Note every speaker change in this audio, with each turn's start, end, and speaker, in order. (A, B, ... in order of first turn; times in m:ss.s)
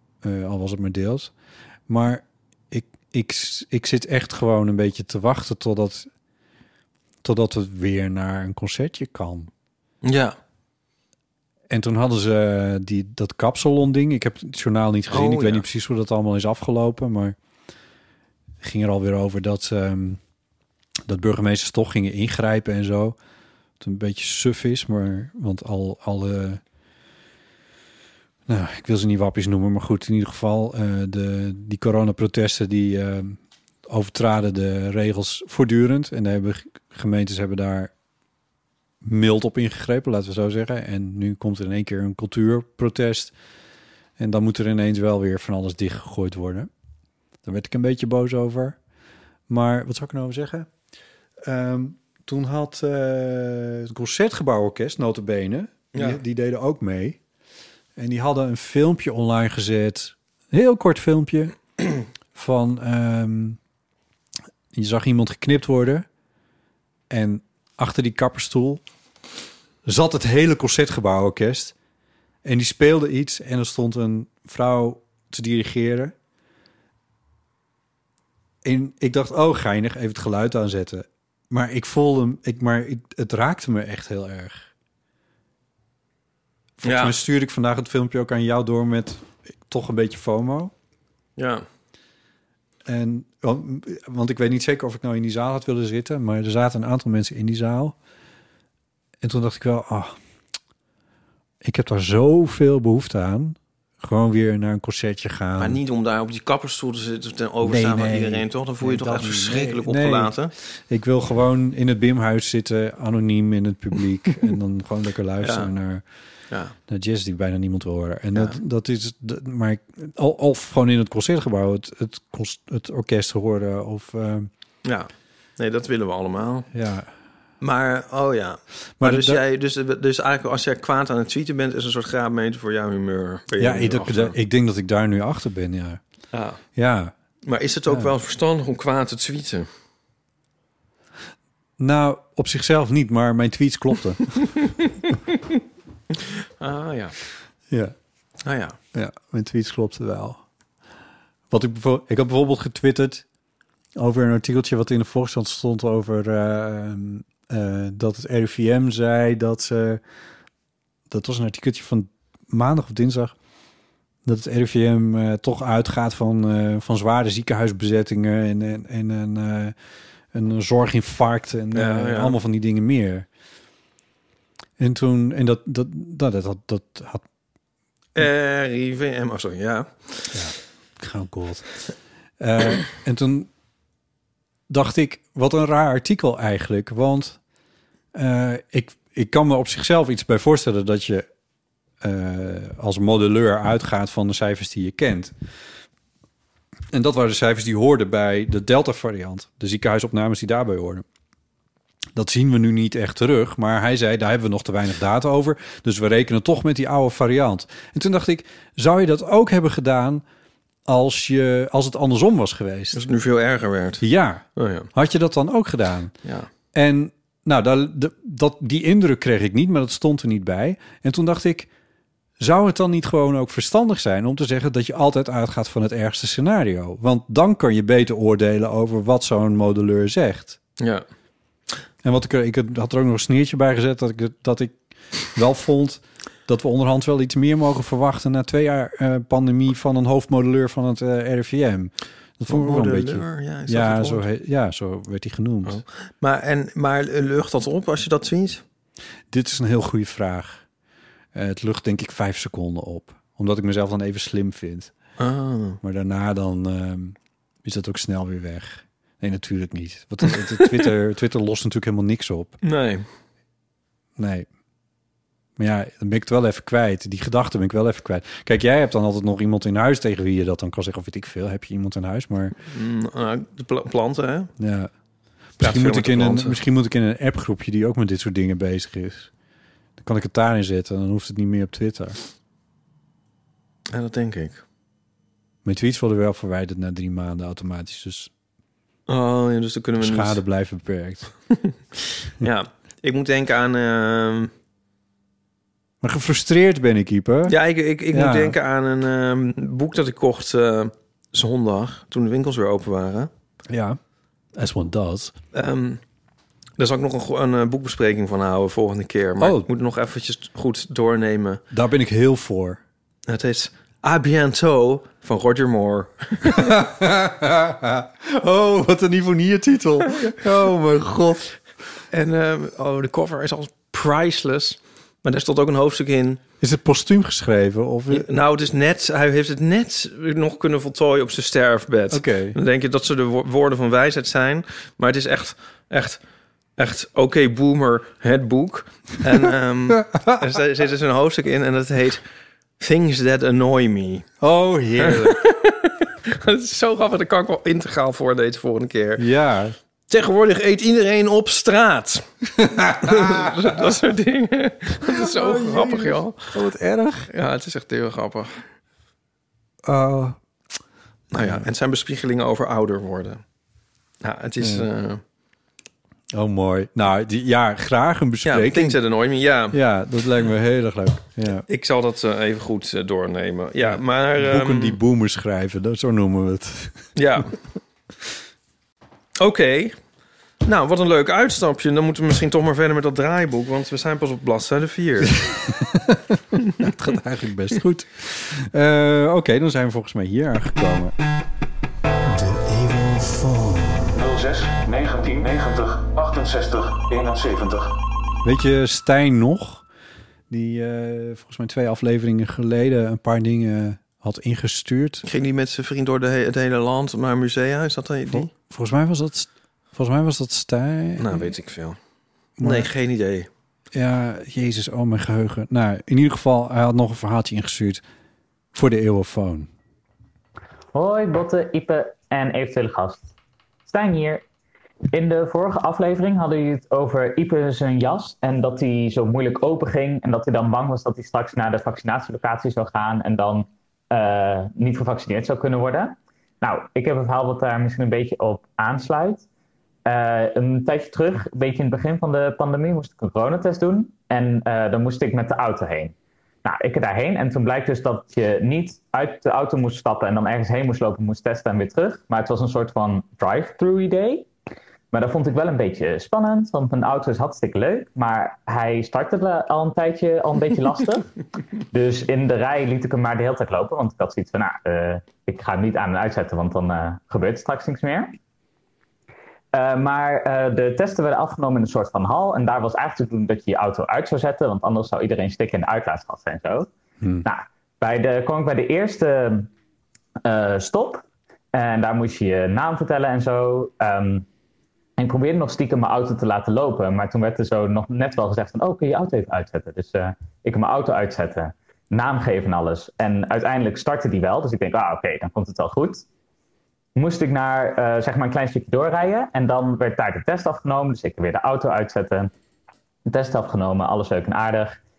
0:00.2-0:01.3 A
0:01.9-0:06.1 A
0:07.2-0:09.5 A
0:10.0-0:10.4 B
0:11.7-0:17.4 A
0:15.1-0:15.6 B
0:18.6-0:20.2 A
0:21.1-0:23.2 A
0:23.8-0:26.6 A
0:28.5-0:37.9 A
0:39.0-0:43.3 A
0:44.2-0:46.7 A
0:47.4-0:48.8 A
0:49.5-0:50.7 A
0:51.4-0:57.2 A
0:55.9-0:56.2 B
0:58.0-1:01.6 A
1:02.3-1:03.6 A
1:04.7-1:06.1 A
1:07.1-1:08.8 A
1:09.8-1:11.7 A
1:12.4-1:16.1 A
1:18.6-1:24.7 A
1:26.8-1:30.7 A
1:26.8-1:27.1 B
1:31.4-1:31.6 B
1:32.8-1:38.0 A
1:39.2-1:40.1 A
1:41.6-1:45.8 A
1:45.6-1:50.5 B
1:47.6-1:56.0 A
1:55.4-1:55.7 B
1:56.9-2:04.5 A
2:04.8-2:06.7 B
2:06.7-2:07.1 A
2:07.6-2:14.3 B
2:09.0-2:09.4 A
2:13.6-2:16.0 A
2:16.3-2:16.6 B
2:16.8-2:17.1 A
2:17.4-2:19.7 B
2:17.9-2:18.1 A
2:21.8-2:24.4 A
2:26.2-2:27.2 B
2:28.4-2:28.8 B
2:28.9-2:30.4 A
2:31.5-2:33.2 A
2:34.0-2:40.0 A
2:41.1-2:43.3 A
2:44.2-2:49.7 A
2:50.3-2:53.3 A
2:51.7-2:52.4 B
2:54.8-2:57.2 A
2:58.2-3:00.4 B
3:00.3-3:01.7 A
3:02.4-3:03.5 A
3:04.7-3:07.4 A
3:08.1-3:11.2 A
3:12.0-3:15.3 A
3:16.9-3:21.0 A
3:22.1-3:30.2 A
3:30.8-3:33.0 A
3:32.9-3:34.0 B
3:34.0-3:36.1 A
3:34.6-3:34.9 B
3:36.2-3:36.5 B
3:36.7-3:41.7 A
3:42.4-3:50.6 A
3:50.8-3:51.0 B
3:52.0-3:54.8 A
3:55.3-4:05.8 A
4:02.5-4:04.2 B
4:05.6-4:08.6 B
4:09.3-4:10.6 A
4:11.3-4:14.9 A
4:15.2-4:15.8 B
4:15.8-4:22.6 A
4:20.6-4:20.9 B
4:22.6-4:23.0 B
4:24.2-4:24.5 A
4:25.6-4:32.6 A
4:32.7-4:34.5 B
4:34.6-4:34.9 A
4:35.6-4:39.3 A
4:35.6-4:36.6 B
4:40.0-4:42.2 A
4:43.9-4:44.6 B
4:45.6-4:48.3 A
4:49.1-4:50.4 B
4:50.0-4:51.3 A
4:52.2-4:54.5 B
4:56.0-4:57.6 A
4:57.5-5:03.3 B
4:58.1-4:58.6 A
5:03.7-5:04.0 A
5:04.5-5:05.3 A
5:05.5-5:06.0 B
5:06.8-5:11.6 B
5:09.4-5:09.7 A
5:11.7-5:12.8 A
5:13.3-5:16.8 B
5:16.4-5:21.5 A
5:22.1-5:26.4 B
5:26.6-5:28.3 A
5:28.1-5:36.2 B
5:32.1-5:32.6 A
5:36.8-5:42.2 B
5:39.9-5:40.4 A
5:42.8-5:44.3 B
5:44.4-5:45.4 A
5:45.0-5:49.2 B
5:49.2-5:49.7 A
5:50.1-5:52.2 B
5:52.6-5:53.9 A
5:52.9-5:56.6 B
5:55.0-5:57.3 A
5:57.3-5:58.6 B
5:59.8-6:00.4 A
6:01.3-6:03.4 B
6:01.3-6:01.6 A
6:04.2-6:05.2 B
6:04.6-6:04.9 A
6:06.3-6:09.0 A
6:08.4-6:09.8 B
6:09.7-6:11.6 A
6:11.7-6:15.0 B
6:13.9-6:17.0 A
6:17.2-6:17.6 B
6:19.4-6:20.0 B
6:20.6-6:25.4 B
6:25.4-6:31.1 A
6:32.2-6:37.9 A
6:38.4-6:39.8 A
6:40.5-6:45.2 A
6:45.2-6:48.5 B
6:48.3-6:51.5 A
6:51.2-6:52.0 B
6:52.6-6:52.9 A
6:52.6-6:53.5 B
6:53.9-6:58.0 A
6:58.7-6:59.7 A
7:00.9-7:03.3 C
7:03.9-7:04.4 C
7:05.1-7:19.4 C
7:20.0-7:34.5 C
7:35.1-7:41.3 C
7:41.9-7:48.4 C
7:49.7-7:56.9 C
7:57.4-7:59.7 C
8:00.4-8:04.5 C
8:05.2-8:16.2 C
8:17.2-8:22.5 C
8:23.3-8:25.0 C